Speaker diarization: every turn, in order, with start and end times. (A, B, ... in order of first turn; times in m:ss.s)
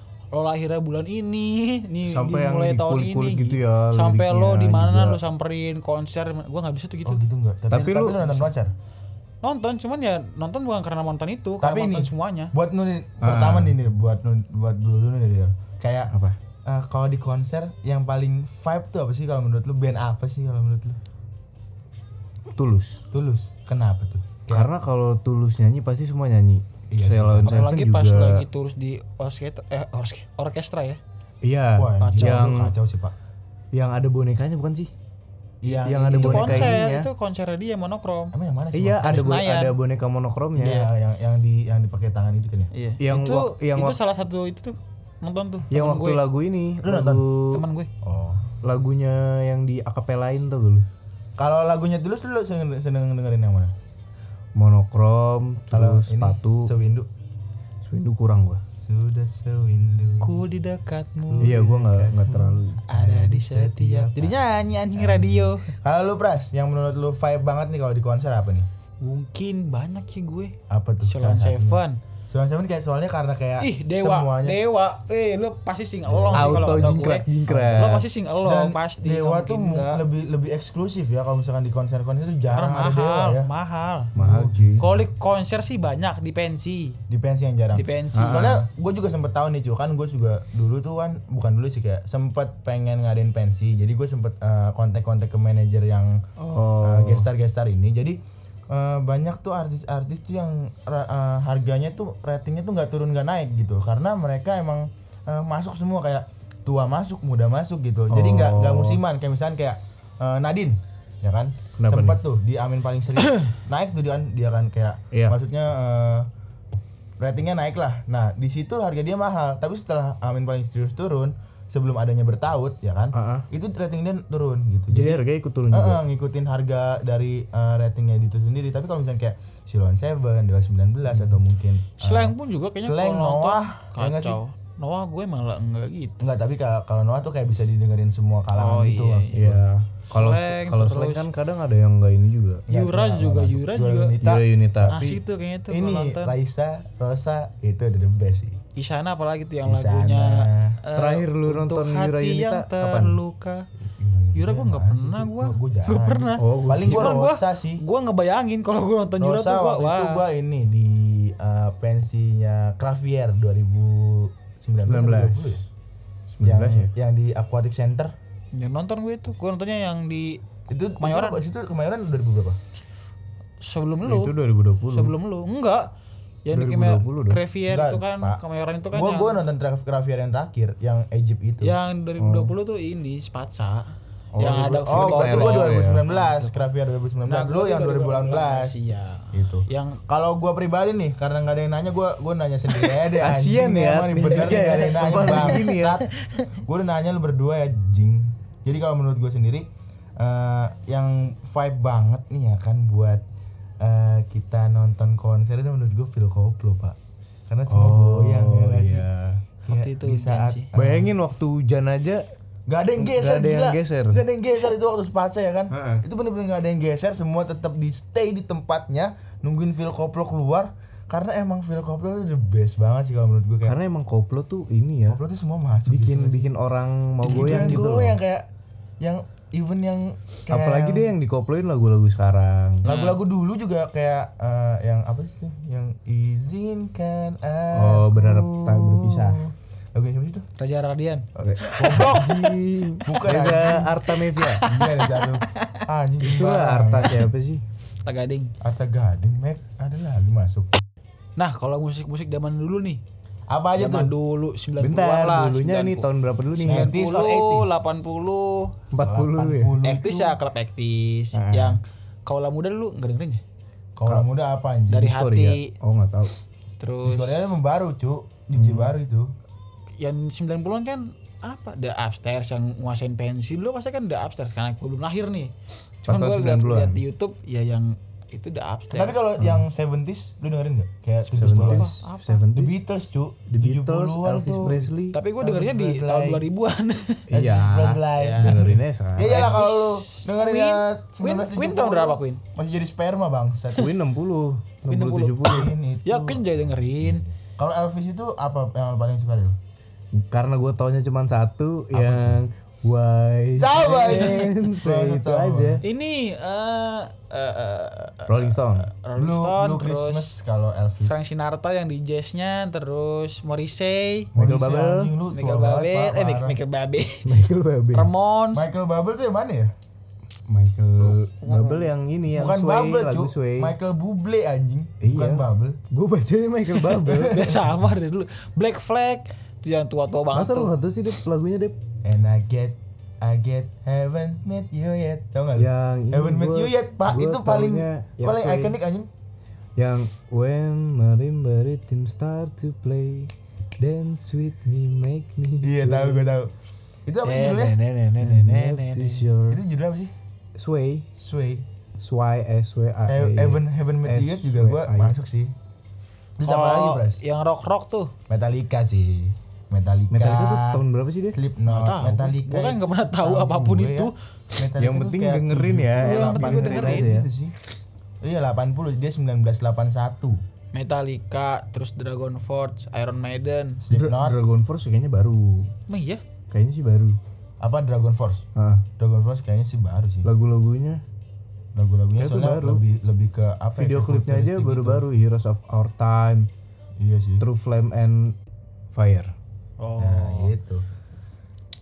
0:00.3-0:07.2 A
0:02.1-0:05.2 B
0:07.0-0:08.7 C
0:07.7-0:08.4 B
0:09.4-0:12.5 A
0:11.6-0:16.1 C
0:13.2-0:13.8 B
0:16.1-0:16.4 B
0:16.7-0:21.0 C
0:22.6-0:23.0 B
0:23.1-0:24.7 C
0:24.5-0:28.4 B
0:26.9-0:27.7 C
0:27.5-0:31.0 A
0:31.4-0:32.7 B
0:31.8-0:33.2 C
0:32.0-0:32.6 A
0:33.7-0:34.9 B
0:35.6-0:36.8 C
0:35.7-0:37.1 B
0:36.2-0:38.3 A
0:38.3-0:39.4 C
0:38.7-0:40.9 B
0:39.0-0:39.7 A
0:40.6-0:42.7 C
0:42.7-0:46.2 A
0:43.0-0:44.0 B
0:45.7-0:47.6 B
0:46.8-0:47.2 C
0:47.5-0:47.9 A
0:48.0-0:48.5 C
0:48.6-0:50.9 B
0:51.4-0:53.7 C
0:54.6-0:56.7 B
0:55.7-0:57.1 C
0:57.8-0:58.6 B
0:58.8-1:00.4 C
1:00.2-1:01.7 A
1:01.3-1:08.7 C
1:01.4-1:02.8 B
1:02.8-1:05.8 A
1:09.0-1:12.0 A
1:10.7-1:14.6 C
1:13.6-1:20.0 A
1:16.1-1:17.8 C
1:16.3-1:18.1 B
1:18.4-1:23.5 C
1:22.5-1:24.1 A
1:24.2-1:24.8 B
1:24.2-1:25.1 C
1:24.8-1:27.0 A
1:27.1-1:36.2 C
1:27.7-1:28.6 A
1:28.1-1:28.6 B
1:36.4-1:37.3 B
1:36.8-1:38.2 C
1:38.7-1:56.3 C
1:48.1-1:49.0 B
1:51.8-1:52.2 B
1:57.2-2:14.4 C
2:03.1-2:03.5 B
2:04.9-2:06.0 B
2:11.1-2:11.4 B
2:12.0-2:16.2 A
2:16.2-2:19.6 C
2:18.5-2:19.6 A
2:19.3-2:22.7 B
2:20.1-2:21.3 A
2:22.7-2:25.1 C
2:22.7-2:24.2 A
2:24.2-2:25.2 B
2:24.9-2:26.3 A
2:25.7-2:28.6 C
2:28.8-2:33.7 A
2:29.6-2:30.8 C
2:31.0-2:33.2 B
2:33.8-2:37.8 C
2:34.4-2:40.2 A
2:36.4-2:37.1 B
2:39.2-2:45.6 C
2:44.9-2:45.6 B
2:46.3-2:46.9 B
2:46.4-2:48.1 C
2:48.5-2:50.4 A
2:50.7-2:52.6 C
2:51.0-2:51.4 A
2:53.6-2:55.9 A
2:54.0-2:55.1 B
2:56.5-2:59.4 A
2:56.5-2:57.4 B
2:57.7-2:58.4 C
2:58.9-3:01.8 C
3:01.6-3:03.9 A
3:02.2-3:02.5 B
3:04.4-3:06.0 B
3:04.4-3:06.6 A
3:04.4-3:08.8 C
3:07.3-3:10.0 A
3:09.3-3:16.1 C
3:13.0-3:16.0 B
3:14.7-3:16.4 A
3:16.6-3:19.7 C
3:20.2-3:23.2 C
3:23.8-3:29.1 C
3:27.7-3:29.4 B
3:29.7-3:30.7 A
3:29.7-3:31.1 C
3:30.8-3:32.2 B
3:32.7-3:43.8 C
3:33.0-3:34.2 B
3:35.7-3:36.0 B
3:43.6-3:45.2 B
3:45.1-3:46.5 C
3:45.9-3:48.2 B
3:47.2-3:48.5 C
3:47.3-3:47.8 A
3:49.0-3:51.1 C
3:50.5-3:52.8 B
3:52.8-3:53.2 A
3:52.8-4:00.5 C
3:57.7-3:59.4 B
4:00.6-4:02.6 A
4:01.4-4:02.4 C
4:01.4-4:04.6 B
4:03.0-4:04.0 C
4:04.2-4:05.8 A
4:04.6-4:07.3 C
4:06.2-4:07.6 B
4:08.0-4:08.5 A
4:08.6-4:10.8 C
4:11.4-4:13.0 A
4:13.5-4:14.1 C
4:13.8-4:18.8 A
4:14.8-4:17.0 B
4:16.6-4:17.8 C
4:18.9-4:19.8 B
4:19.0-4:20.4 C
4:19.8-4:23.4 A
4:21.3-4:21.8 B
4:24.0-4:25.2 C
4:24.9-4:25.7 A
4:25.0-4:26.3 B
4:26.8-4:27.4 A
4:27.0-4:29.3 C
4:28.6-4:28.9 B
4:30.0-4:35.5 A
4:36.0-4:37.0 B
4:36.1-4:39.2 A
4:38.9-4:42.0 C
4:39.4-4:39.6 B
4:41.3-4:42.8 B
4:41.4-4:42.4 A
4:42.6-4:44.9 C
4:43.5-4:45.2 B
4:45.1-4:47.3 A
4:45.4-4:46.5 C
4:47.3-4:49.6 B
4:47.3-4:53.9 C
4:48.1-4:52.4 A
4:53.8-4:55.7 B
4:54.9-4:57.2 A
4:55.4-4:59.6 C
5:00.2-5:05.8 B
5:01.9-5:02.4 C
5:03.6-5:05.8 C
5:03.7-5:04.5 A
5:05.8-5:10.4 A
5:08.3-5:08.9 B
5:09.2-5:11.3 C
5:11.0-5:14.3 A
5:14.3-5:16.6 C
5:14.4-5:15.1 B
5:15.3-5:17.3 A
5:17.2-5:18.1 B
5:17.9-5:18.7 A
5:18.5-5:19.7 C
5:20.5-5:23.7 B
5:21.4-5:21.9 A
5:22.3-5:25.8 C
5:25.0-5:27.5 B
5:27.1-5:27.8 C
5:27.2-5:30.7 A
5:30.3-5:31.8 B
5:32.0-5:39.1 C
5:35.6-5:38.8 B
5:39.8-5:46.3 B
5:45.6-5:46.5 C
5:47.1-5:47.8 C
5:47.2-5:49.3 A
5:47.9-5:49.6 B
5:49.5-5:50.1 C
5:50.6-5:51.1 B
5:51.1-5:51.7 C
5:52.0-5:55.1 B
5:53.1-5:55.5 C
5:56.4-5:57.2 C
5:56.4-5:58.1 A
5:58.3-6:07.6 C
6:00.1-6:01.4 B
6:01.7-6:04.2 A
6:04.8-6:07.3 B
6:06.0-6:07.2 A
6:08.2-6:10.4 C
6:10.7-6:13.8 A
6:13.8-6:14.4 C
6:13.9-6:15.7 B
6:15.9-6:16.2 A
6:16.5-6:17.2 B
6:17.6-6:18.5 C
6:18.6-6:18.8 B
6:19.0-6:20.3 C
6:20.2-6:21.0 B
6:21.8-6:25.0 C
6:22.2-6:22.8 B
6:23.8-6:26.5 B
6:27.0-6:27.5 C
6:27.4-6:28.4 B
6:28.9-6:29.3 B
6:29.8-6:30.5 A
6:30.0-6:30.8 C